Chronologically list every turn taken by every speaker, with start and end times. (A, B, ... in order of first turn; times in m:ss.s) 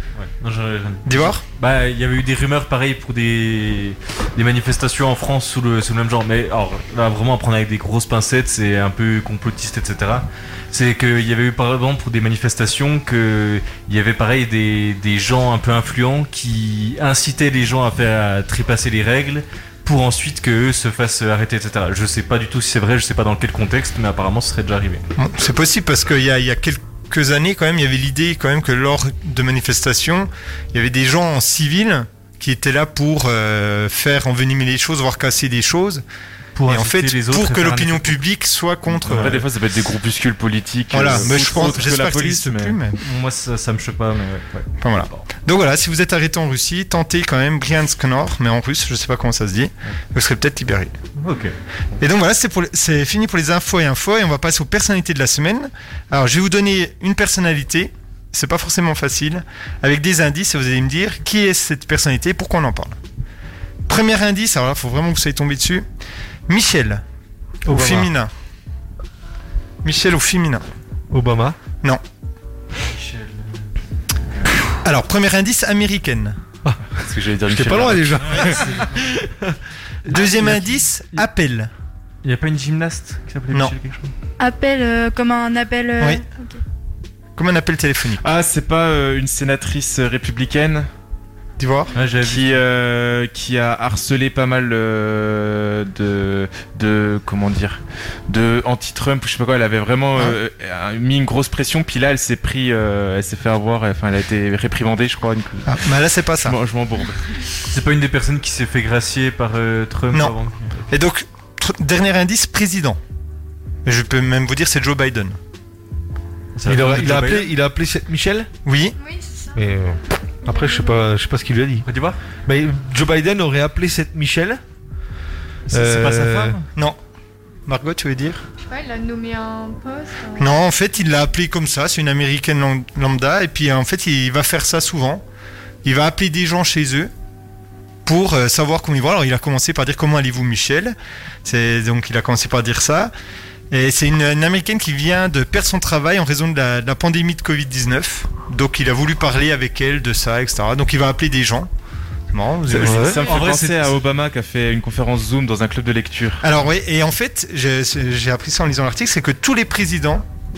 0:00.2-0:25.0 A
0:01.1-0:01.4 B
0:25.2-0:36.0 B
0:36.6-0:38.2 A
0:36.7-0:39.4 B
0:39.0-0:39.4 A
0:39.0-0:42.8 C
0:40.9-0:43.0 B
0:41.1-0:41.8 A
0:43.0-0:45.2 A
0:44.8-0:51.0 B
0:51.2-0:51.6 A
0:52.0-1:03.0 B
1:03.9-1:05.8 B
1:06.5-1:07.0 B
1:07.7-1:08.3 B
1:07.7-1:08.1 D
1:09.8-1:10.6 B
1:11.1-1:11.6 D
1:12.8-1:13.6 A
1:14.8-1:16.4 B
1:17.0-1:18.6 C
1:17.5-1:19.5 D
1:18.2-1:19.1 A
1:20.1-1:20.7 D
1:20.1-1:21.7 B
1:22.2-1:24.1 A
1:24.4-1:26.6 E
1:27.4-1:28.2 B
1:28.2-1:30.9 C
1:31.6-1:31.9 B
1:31.9-1:32.6 A
1:32.2-1:45.9 C
1:45.7-1:46.6 B
1:46.4-1:47.3 C
1:47.7-1:50.8 A
1:50.9-1:53.0 B
1:53.8-1:55.4 B
1:56.6-1:57.5 A
1:56.6-1:58.5 D
1:58.6-1:59.0 B
1:59.0-1:59.7 F
1:59.6-2:01.9 D
2:00.5-2:01.1 F
2:01.9-2:02.2 A
2:02.5-2:04.6 D
2:05.7-2:06.6 A
2:05.7-2:06.6 D
2:07.7-2:08.4 B
2:08.6-2:10.6 F
2:10.4-2:15.2 B
2:15.8-2:17.1 B
2:18.0-2:23.1 B
2:23.7-2:31.7 B
2:32.3-2:33.4 B
2:32.7-2:36.4 C
2:32.7-2:33.2 D
2:33.1-2:34.0 A
2:36.4-2:40.3 B